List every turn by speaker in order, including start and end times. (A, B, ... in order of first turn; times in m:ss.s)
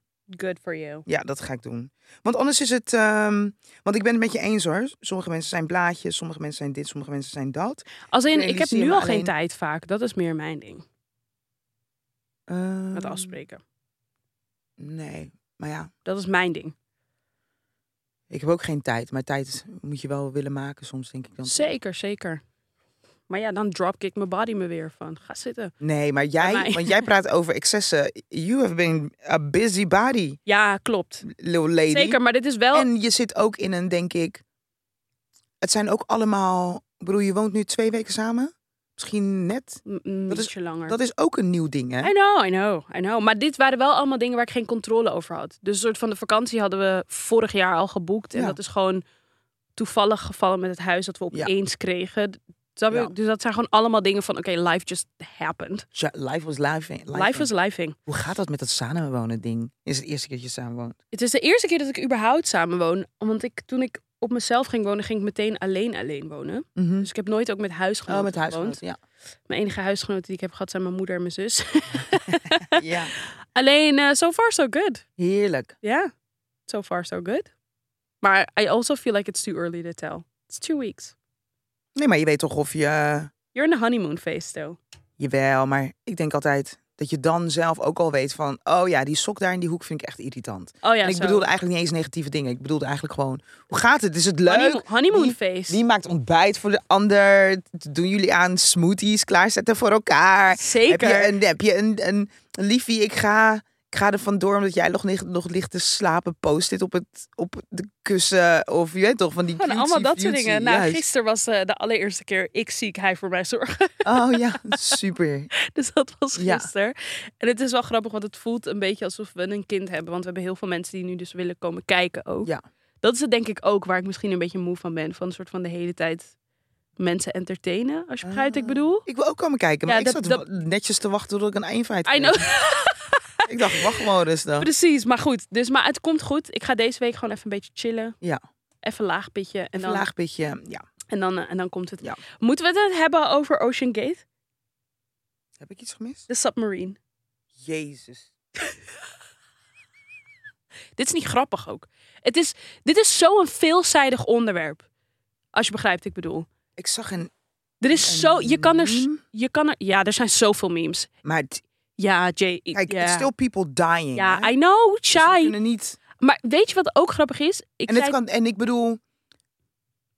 0:00.3-0:01.1 A
0:01.1-0:09.3 B
0:08.1-0:10.8 A
0:12.5-0:13.4 B
0:12.9-0:13.6 A
0:14.8-0:15.9 B
0:16.0-0:16.7 A
0:18.3-0:21.7 B
0:21.4-0:22.4 A
0:23.3-0:25.7 A
0:25.8-0:30.4 B
0:26.4-0:27.0 A
0:30.5-0:31.3 A
0:31.2-0:32.2 B
0:31.9-0:32.9 A
0:32.7-0:34.4 B
0:35.6-0:42.1 B
0:39.9-0:41.0 A
0:42.0-0:49.0 A
0:49.8-0:55.9 A
0:56.0-0:57.5 B
0:57.1-0:58.0 A
0:58.1-1:01.0 B
1:01.1-1:08.8 A
1:06.8-1:07.1 B
1:08.1-1:09.0 B
1:09.5-1:12.8 A
1:12.3-1:13.1 B
1:13.6-1:15.0 A
1:15.2-1:15.8 B
1:15.8-1:16.1 A
1:16.7-1:17.5 A
1:18.2-1:21.1 A
1:22.0-1:23.3 B
1:23.5-1:24.8 A
1:25.2-1:51.0 B
1:30.8-1:31.5 A
1:34.5-1:35.8 A
1:40.5-1:41.4 A
1:49.6-1:55.0 A
1:54.0-1:55.5 B
1:55.5-2:02.5 A
1:56.4-1:56.7 B
2:03.0-2:06.3 A
2:07.0-2:09.0 A
2:08.2-2:12.5 B
2:09.9-2:10.4 A
2:12.1-2:14.0 A
2:13.5-2:14.7 B
2:14.6-2:18.2 A
2:18.8-2:20.1 A
2:19.8-2:20.8 B
2:21.1-2:24.2 A
2:25.6-2:26.3 B
2:26.3-2:27.0 A
2:27.6-2:28.3 B
2:31.0-2:34.8 A
2:35.5-2:36.5 A
2:36.8-2:37.3 B
2:37.8-2:41.1 A
2:37.9-2:39.2 B
2:41.2-2:41.6 B
2:42.0-2:43.3 A
2:42.7-2:44.5 B
2:44.2-2:45.5 A
2:45.2-2:46.0 B
2:46.2-2:48.2 A
2:47.9-2:49.0 B